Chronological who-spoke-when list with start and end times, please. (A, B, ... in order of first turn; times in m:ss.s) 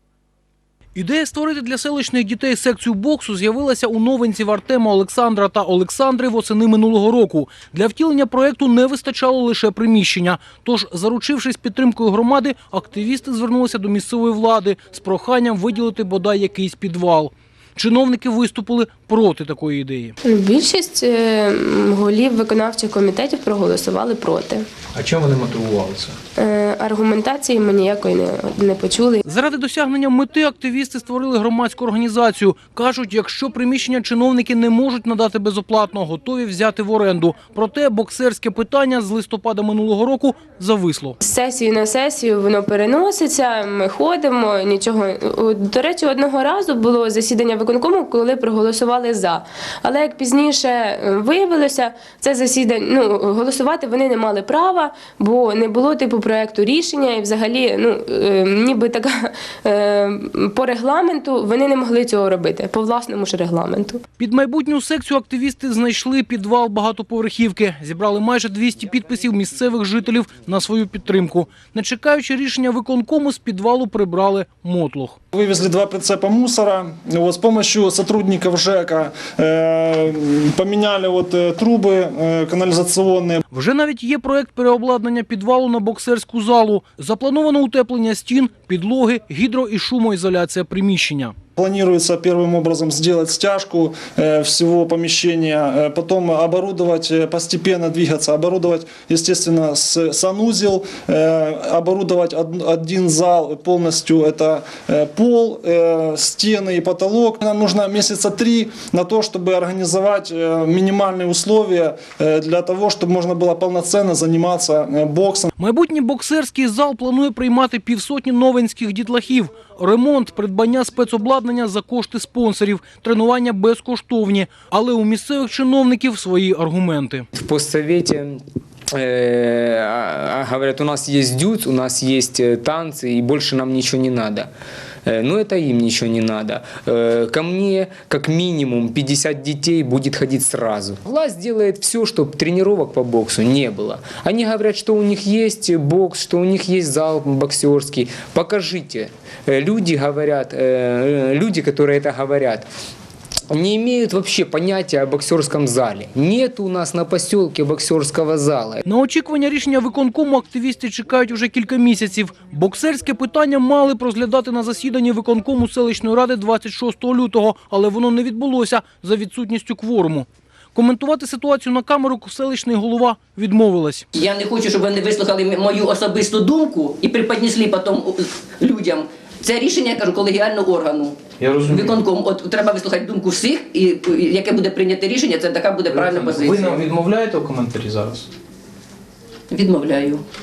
0:01.0-0:20.2 A
0:20.2-0:24.6 B
0:25.0-0:26.2 C
0:26.4-0:29.2 B
0:29.2-0:41.2 A
0:41.2-1:04.0 B
1:04.2-1:15.2 A
1:15.3-1:23.4 D
1:23.5-1:31.4 A
1:31.6-1:55.5 D
1:55.6-2:07.3 A
2:07.3-2:08.4 E
2:08.9-2:14.5 E
2:15.0-2:32.7 E
2:33.5-2:38.8 E
2:38.8-2:54.1 A
2:54.1-3:07.0 F
3:01.4-3:01.9 C
3:05.9-3:08.3 C
3:09.5-3:10.2 F